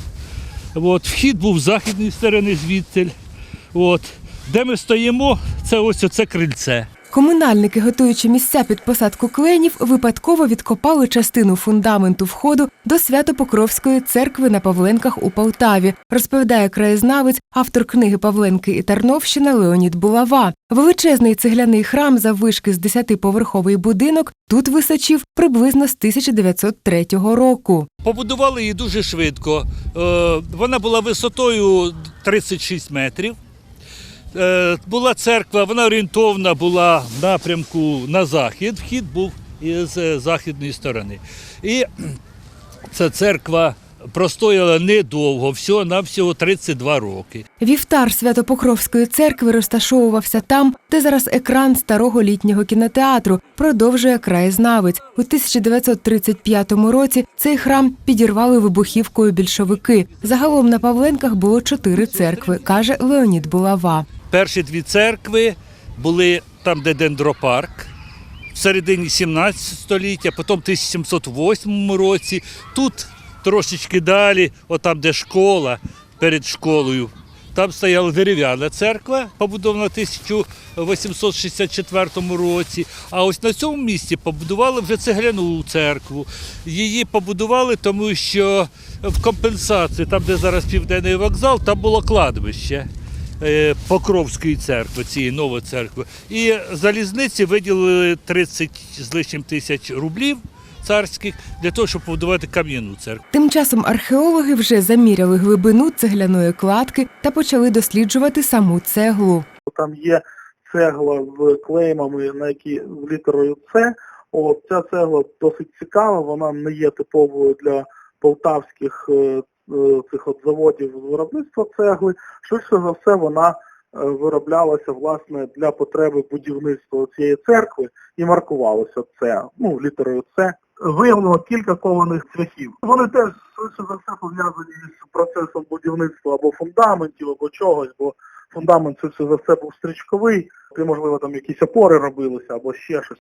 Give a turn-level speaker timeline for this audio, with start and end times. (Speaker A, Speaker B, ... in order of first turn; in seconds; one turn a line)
Speaker A: 0.8-3.1
Speaker A: 3.7-6.9
Speaker B: 7.1-27.9
Speaker A: 28.0-33.4
Speaker A: 34.3-42.1
Speaker A: 42.9-47.5
Speaker B: 47.6-64.1
Speaker A: 64.3-67.9
Speaker A: 68.5-92.9
Speaker A: 93.4-103.2
Speaker B: 103.3-109.5
Speaker C: 109.7-143.2